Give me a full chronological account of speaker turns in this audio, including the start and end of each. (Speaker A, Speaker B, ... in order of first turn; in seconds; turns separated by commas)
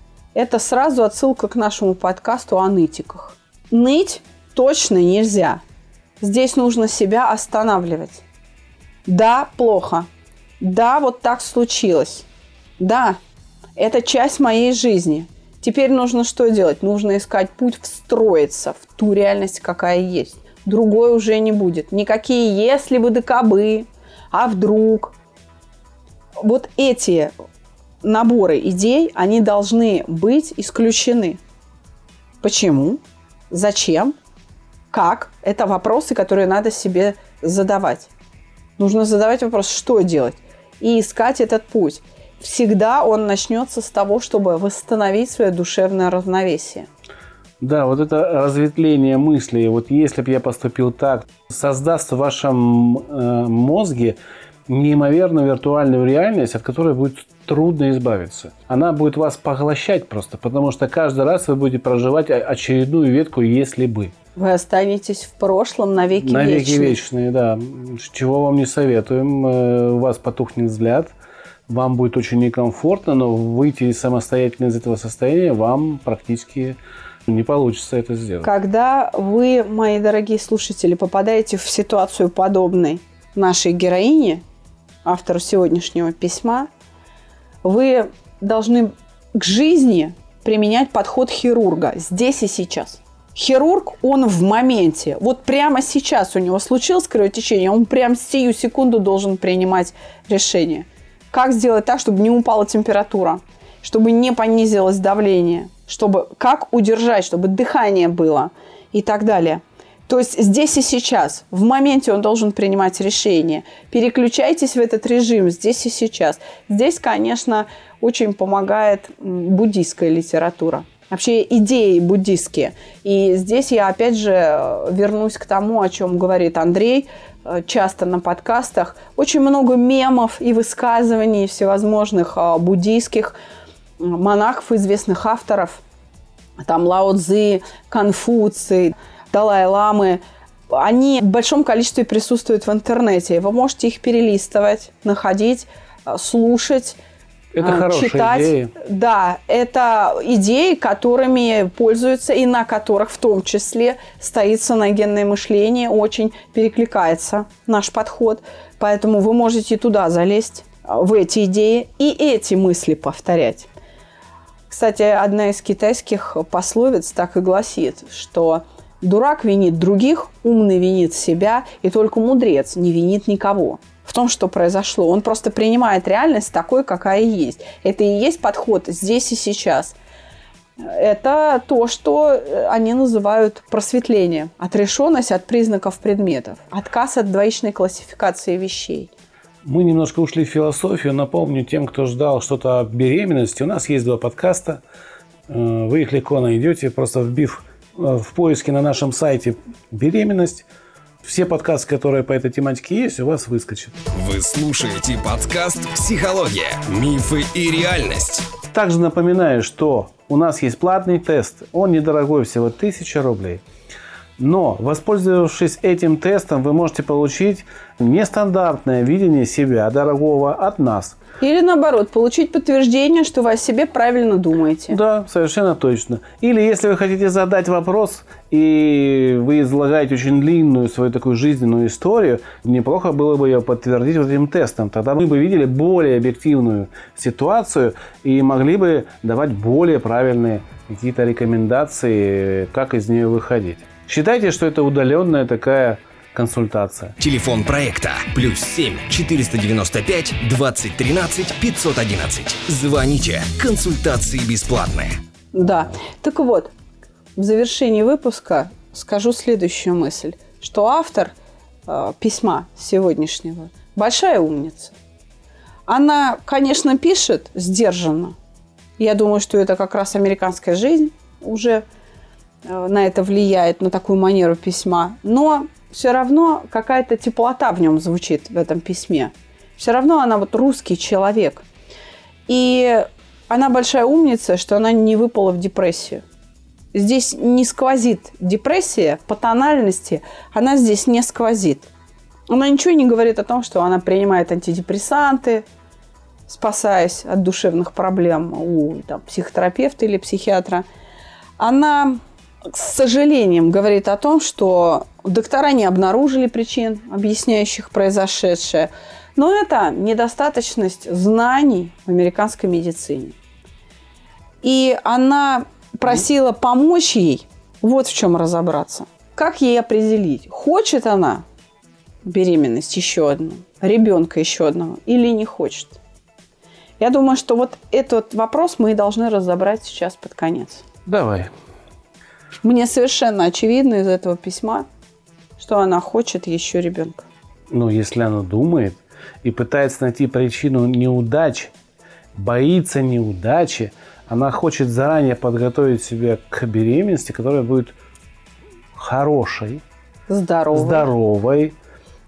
Speaker A: 0.3-5.6, Speaker A: 6.2-8.2, Speaker A: 9.1-10.1, Speaker A: 10.6-12.3, Speaker A: 12.8-13.2, Speaker A: 13.8-25.1, Speaker A: 26.4-27.3, Speaker A: 28.0-31.4, Speaker A: 32.4-34.1, Speaker A: 34.9-38.1, Speaker A: 38.8-46.9, Speaker B: 47.6-64.1, Speaker A: 64.3-67.0, Speaker B: 66.2-71.1, Speaker B: 71.7-78.5, Speaker A: 78.4-84.4, Speaker A: 85.0-86.7, Speaker A: 87.6-133.3, Speaker A: 134.0-135.8, Speaker A: 136.6-147.0, Speaker B: 147.5-148.7, Speaker A: 147.6-163.7, Speaker A: 164.7-180.0, Speaker A: 180.8-189.1, Speaker B: 189.6-194.8, Speaker B: 195.5-200.7, Speaker B: 201.2-204.0, Speaker C: 204.1-208.5, Speaker B: 208.7-213.6, Speaker B: 214.4-221.2, Speaker A: 221.4-225.0, Speaker B: 224.9-247.2, Speaker C: 247.2-255.2, Speaker A: 255.5-256.7, Speaker A: 257.4-261.3, Speaker A: 261.9-265.0, Speaker A: 265.9-268.3, Speaker A: 269.0-271.8, Speaker A: 272.7-281.6, Speaker A: 282.5-286.2, Speaker A: 286.9-291.9, Speaker A: 292.5-295.6, Speaker A: 296.5-300.8, Speaker A: 301.6-313.4, Speaker A: 314.6-321.4, Speaker A: 322.2-326.0, Speaker A: 327.0-330.8, Speaker B: 331.1-331.5, Speaker A: 332.6-334.9, Speaker A: 335.6-337.2, Speaker B: 337.7-341.7, Speaker B: 342.3-347.9, Speaker B: 348.9-349.8, Speaker A: 350.3-351.1, Speaker B: 350.7-351.7